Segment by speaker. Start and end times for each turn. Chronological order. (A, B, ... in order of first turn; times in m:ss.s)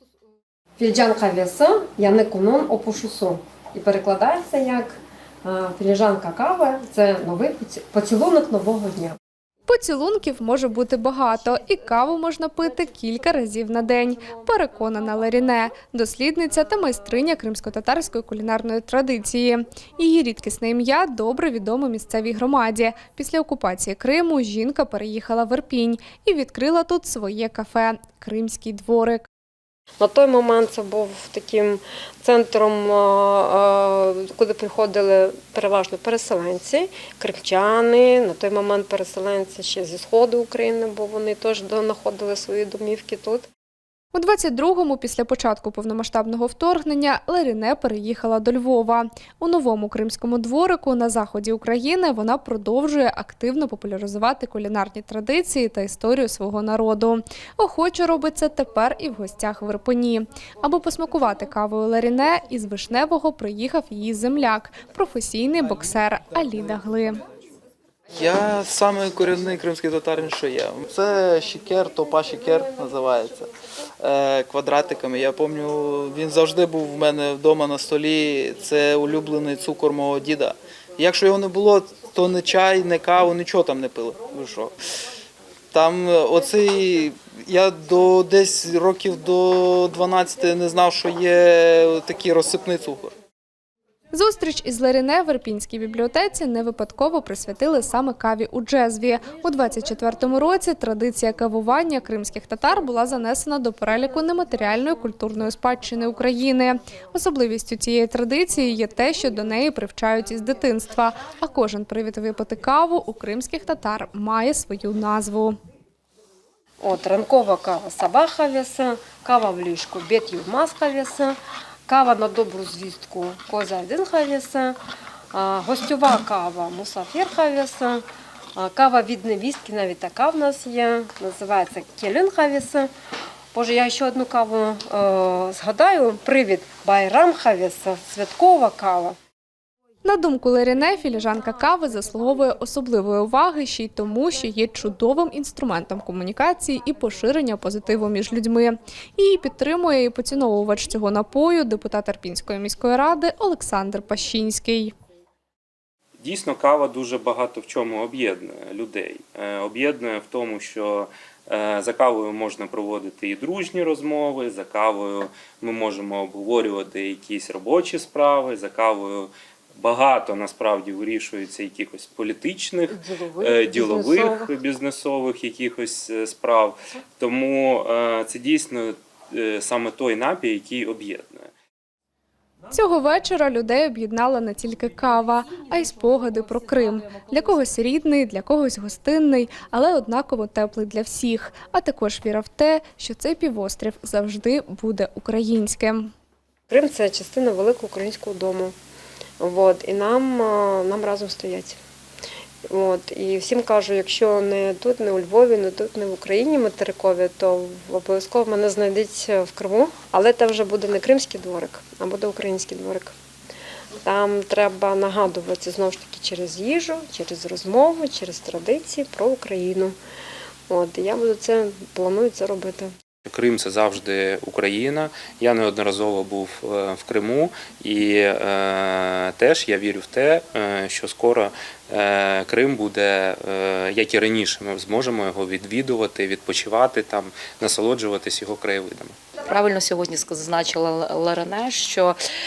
0:00.8-0:09.2 A
0:09.7-0:29.2 B
0:30.0-0:43.4 A
0:44.1-1:07.2 B
1:08.1-1:24.8 C
1:25.7-1:33.1 C
1:34.1-1:55.6 B
1:56.8-2:04.8 A
2:05.3-2:08.0 A
2:08.6-2:12.9 A
2:13.5-2:19.2 A
2:20.0-2:34.9 B
2:36.2-3:01.5 D
2:52.9-2:54.5 A
3:02.7-3:16.1 B
3:16.7-3:18.7 A
3:19.4-3:21.8 A
3:22.7-3:33.1 A
3:34.0-3:40.0 A
3:40.7-3:42.9 A
3:43.2-3:59.2 D
3:59.5-4:02.2 E